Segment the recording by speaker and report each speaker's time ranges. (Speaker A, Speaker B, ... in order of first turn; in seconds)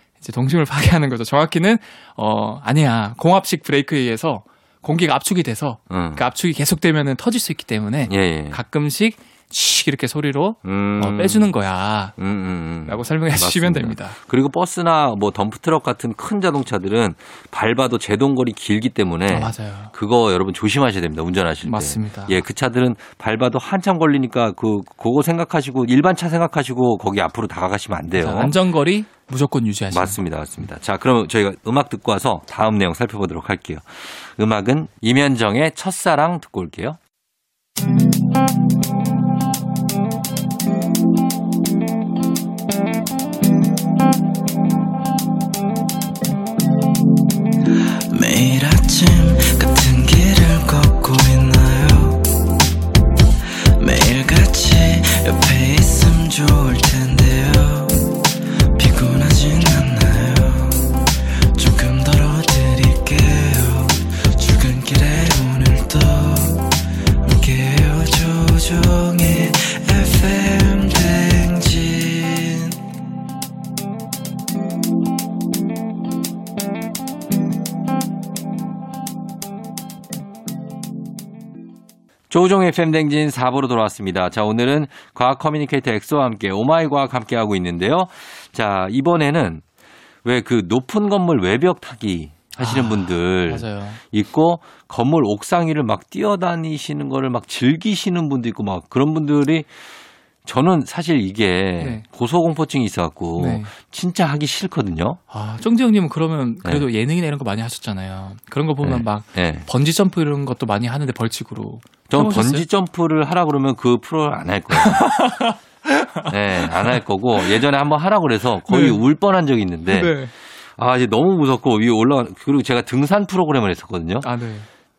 Speaker A: 0.2-12.2, 12.8-14.2, 19.3-19.9, 21.6-22.4, 28.1-30.2, 92.6-94.0, 103.4-103.7, 105.3-112.7, 114.7-117.6, 118.7-119.0, 119.9-120.3, 124.2-124.7
Speaker B: 5.9-6.2, 8.1-8.6, 10.7-11.5, 12.2-28.5, 29.9-37.0, 82.3-89.6, 90.2-99.7, 100.5-105.2, 108.8-109.7, 112.1-115.1, 116.3-120.2, 120.8-124.3
Speaker C: 48.1-52.4, 53.8-72.8